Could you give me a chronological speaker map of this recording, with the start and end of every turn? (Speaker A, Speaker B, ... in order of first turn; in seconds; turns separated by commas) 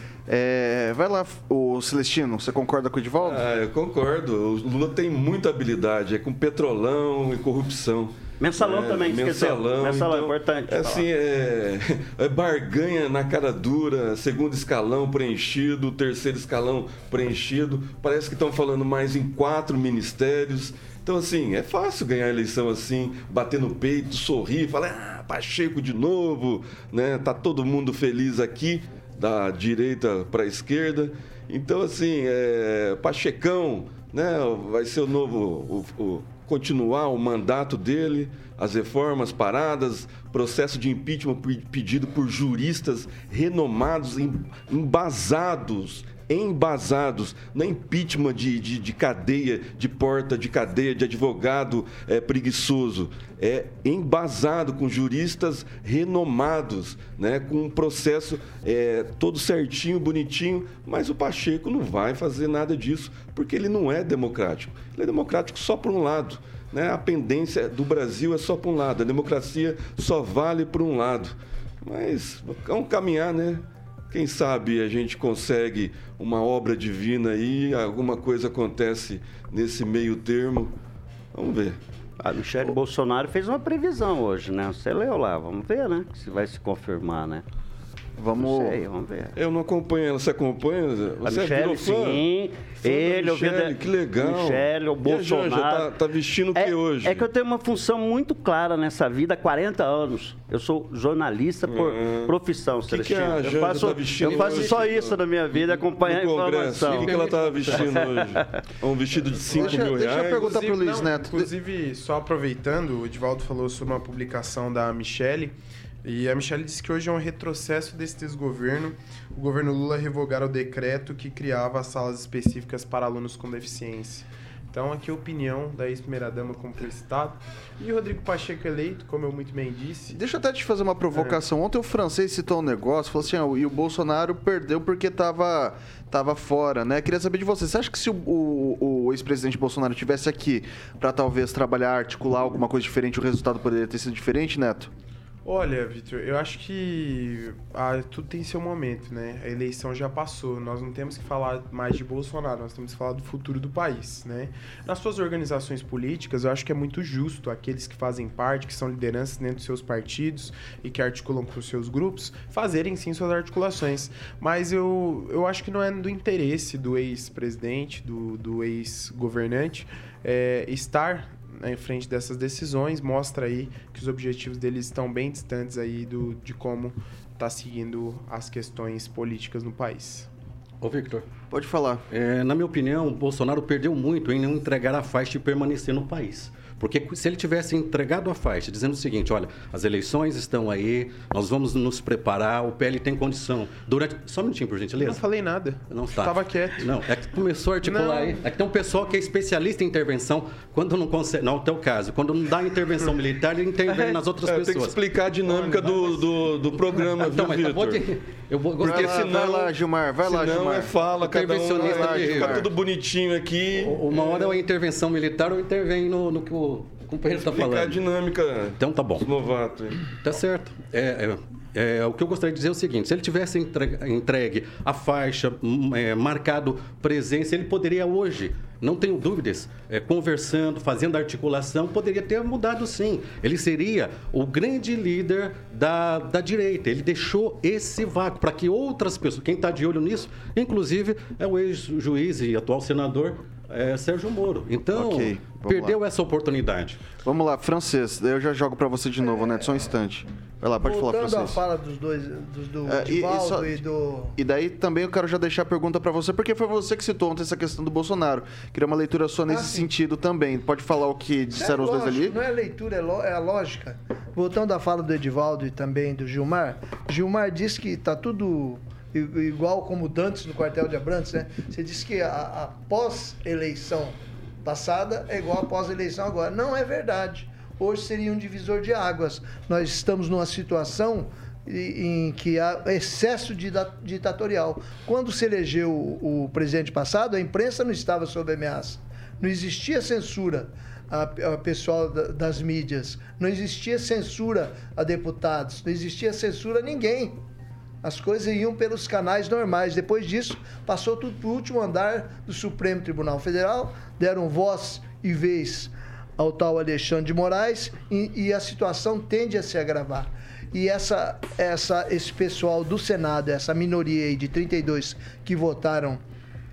Speaker A: 0.3-3.4, Speaker B: 3.2-80.7, Speaker C: 8.4-11.1, Speaker B: 81.3-81.8, Speaker C: 82.2-87.4, Speaker A: 88.2-88.8, Speaker C: 88.4-89.3, Speaker B: 89.3-92.2, Speaker C: 91.2-95.9, Speaker B: 92.8-97.3, Speaker C: 96.5-108.4, Speaker B: 101.7-102.3, Speaker B: 102.9-110.6, Speaker D: 106.9-108.3, Speaker A: 109.5-111.5, Speaker E: 109.7-130.2, Speaker A: 130.1-144.9, Speaker E: 145.4-180.3, Speaker D: 180.8-181.2, Speaker A: 181.5-182.0, Speaker D: 182.1-195.2, Speaker E: 195.0-197.0, Speaker D: 195.9-205.0, Speaker E: 197.8-198.4, Speaker B: 204.4-208.0, Speaker D: 205.5-206.2, Speaker D: 207.0-209.3, Speaker A: 208.8-210.9, Speaker B: 208.8-214.3, Speaker D: 211.2-212.7, Speaker A: 211.7-212.7, Speaker D: 213.8-218.0, Speaker B: 217.3-220.2, Speaker D: 218.8-219.3, Speaker D: 220.2-247.0, Speaker A: 244.9-246.0, Speaker A: 247.2-251.6, Speaker F: 250.8-254.3, Speaker A: 252.8-253.8, Speaker A: 254.3-262.4, Speaker F: 259.5-259.9, Speaker F: 261.5-297.4, Speaker F: 298.0-316.2